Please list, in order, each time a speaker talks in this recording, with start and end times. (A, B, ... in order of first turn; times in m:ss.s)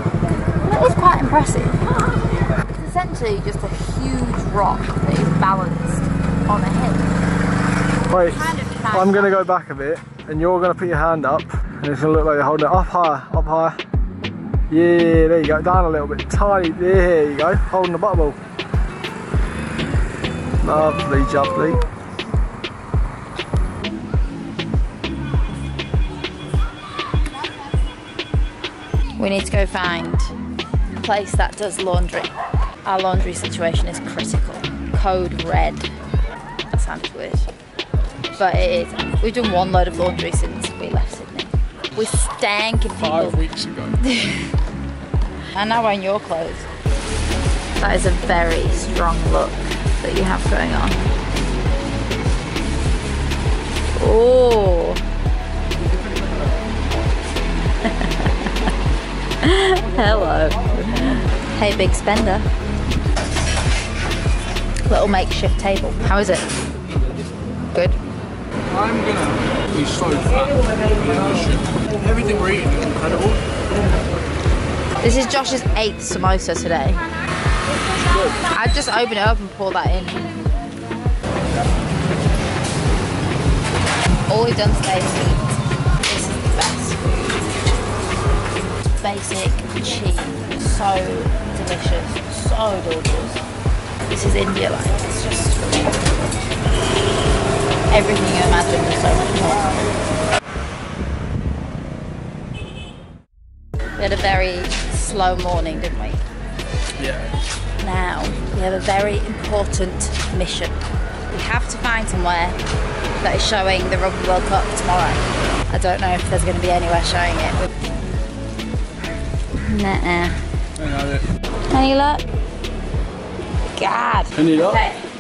0:00.6-0:07.1 A
0:08.1-0:13.8 B
0:08.2-0:09.5 A
0:14.7-0:18.4 B
0:20.6-0:21.8 B
0:29.2-0:30.3 A
0:31.0-0:32.3 A
0:32.8-0:35.9 A
0:36.7-0:37.5 A
0:38.4-0:43.4 A
0:43.0-0:44.0 B
0:44.0-0:44.6 A
0:45.5-0:46.7 A
0:47.8-0:51.0 A
0:54.0-0:55.0 A
0:57.8-0:58.3 A
0:59.4-1:02.5 A
1:04.9-1:06.5 A
1:07.7-1:08.0 A
1:08.7-1:13.4 B
1:15.0-1:17.0 A
1:18.1-1:18.4 B
1:18.4-1:20.2 A
1:24.3-1:27.5 A
1:29.0-1:33.4 A
1:34.1-1:36.3 A
1:37.9-1:39.9 A
1:44.0-1:46.2 A
1:47.0-1:47.3 B
1:47.8-1:50.8 A
1:51.3-1:52.6 A
1:53.2-1:57.6 A
1:59.7-2:00.4 A
2:00.8-2:01.3 B
2:01.7-2:02.2 A
2:03.7-2:05.0 A
2:04.3-2:04.8 B